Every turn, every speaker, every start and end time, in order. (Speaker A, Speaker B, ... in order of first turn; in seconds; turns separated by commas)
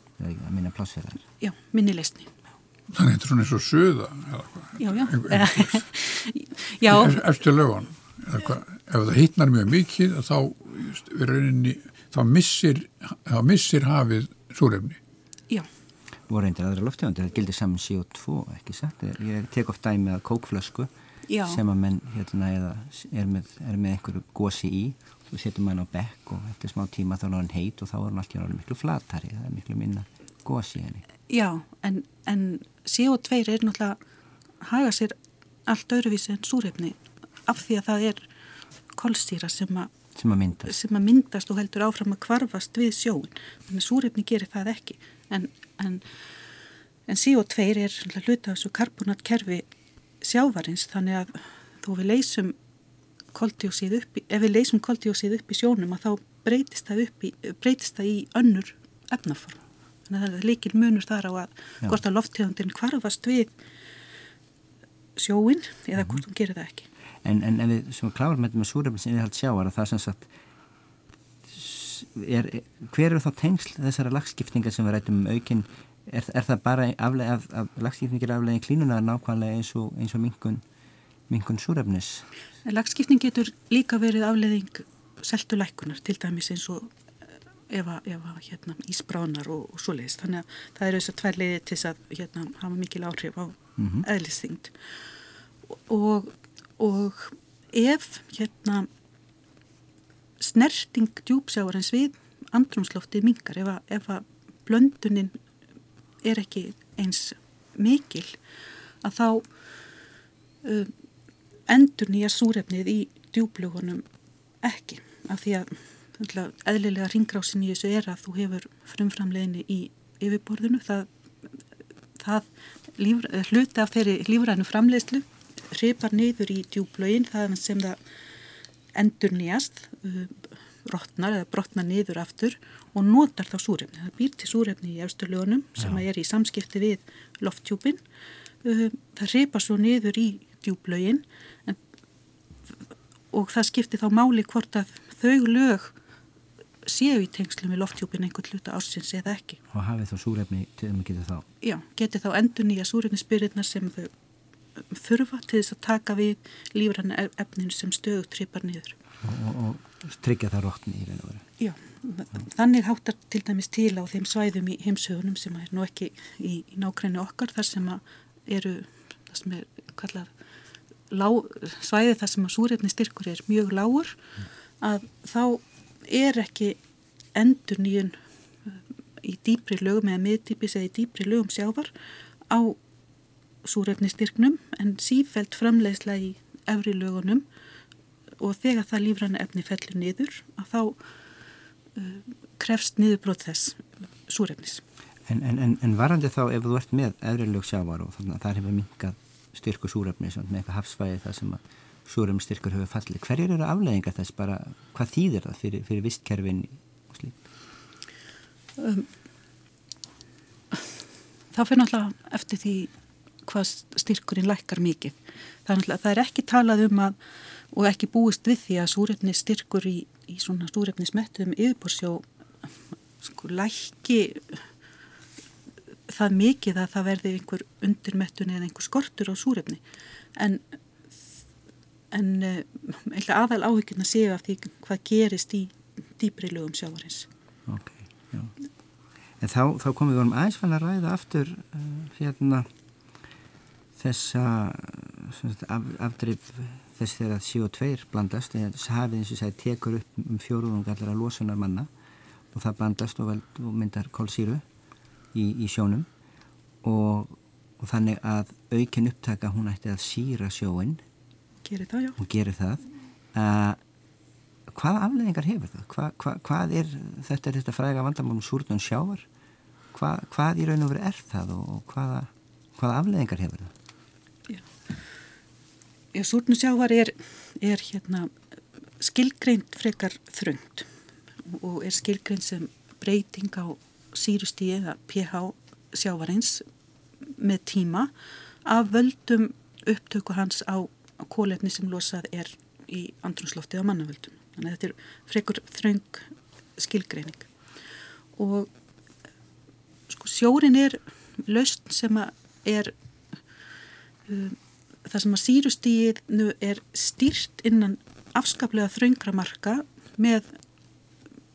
Speaker A: 0.2-1.2, Speaker B: 1.4-2.3, Speaker C: 2.9-5.8, Speaker B: 4.8-7.2, Speaker C: 6.9-15.0, Speaker A: 16.3-20.9, Speaker B: 21.3-21.6, Speaker A: 21.4-31.0, Speaker B: 31.3-34.0, Speaker B: 34.6-38.3, Speaker B: 38.9-39.9, Speaker A: 40.1-40.7, Speaker B: 40.6-46.0, Speaker B: 47.1-49.6, Speaker B: 50.2-52.5, Speaker B: 53.3-63.5, Speaker B: 65.2-66.9, Speaker A: 67.2-70.3, Speaker A: 71.5-80.6, Speaker A: 81.3-82.2, Speaker B: 82.6-86.9, Speaker B: 87.7-94.7, Speaker A: 93.8-94.0, Speaker B: 95.9-98.9, Speaker B: 100.4-105.4, Speaker B: 106.2-108.4, Speaker B: 109.0-109.5, Speaker B: 110.6-110.9, Speaker B: 111.7-114.0, Speaker B: 114.6-121.1, Speaker B: 122.2-128.0, Speaker B: 128.9-138.0, Speaker B: 138.6-141.8, Speaker B: 143.3-145.9, Speaker B: 146.8-149.6, Speaker A: 149.7-151.5, Speaker B: 151.6-154.1, Speaker B: 154.8-159.0, Speaker A: 159.2-161.4, Speaker B: 161.6-170.3, Speaker B: 171.1-174.2, Speaker B: 174.8-176.8, Speaker B: 177.3-181.9, Speaker B: 182.5-182.8, Speaker B: 183.6-187.4, Speaker B: 188.4-191.0, Speaker B: 191.9-194.8, Speaker A: 195.3-207.4, Speaker B: 208.8-209.1, Speaker B: 211.5-212.9, Speaker B: 213.4-217.2, Speaker B: 217.7-222.2, Speaker B: 223.2-224.6, Speaker B: 226.1-229.8, Speaker B: 230.3-230.6, Speaker B: 232.1-237.3, Speaker A: 237.7-238.5, Speaker A: 239.4-242.7, Speaker A: 244.0-251.9, Speaker A: 252.5-254.6, Speaker A: 255.3-256.1, Speaker A: 256.8-261.0, Speaker B: 261.6-262.2, Speaker A: 262.2-263.8, Speaker A: 264.7-269.2, Speaker A: 269.9-273.7, Speaker B: 276.1-278.3, Speaker B: 279.0-280.9, Speaker B: 281.4-286.6, Speaker B: 287.2-288.1, Speaker B: 288.6-297.5, Speaker B: 298.4-298.7, Speaker B: 300.1-302.9, Speaker B: 304.3-310.4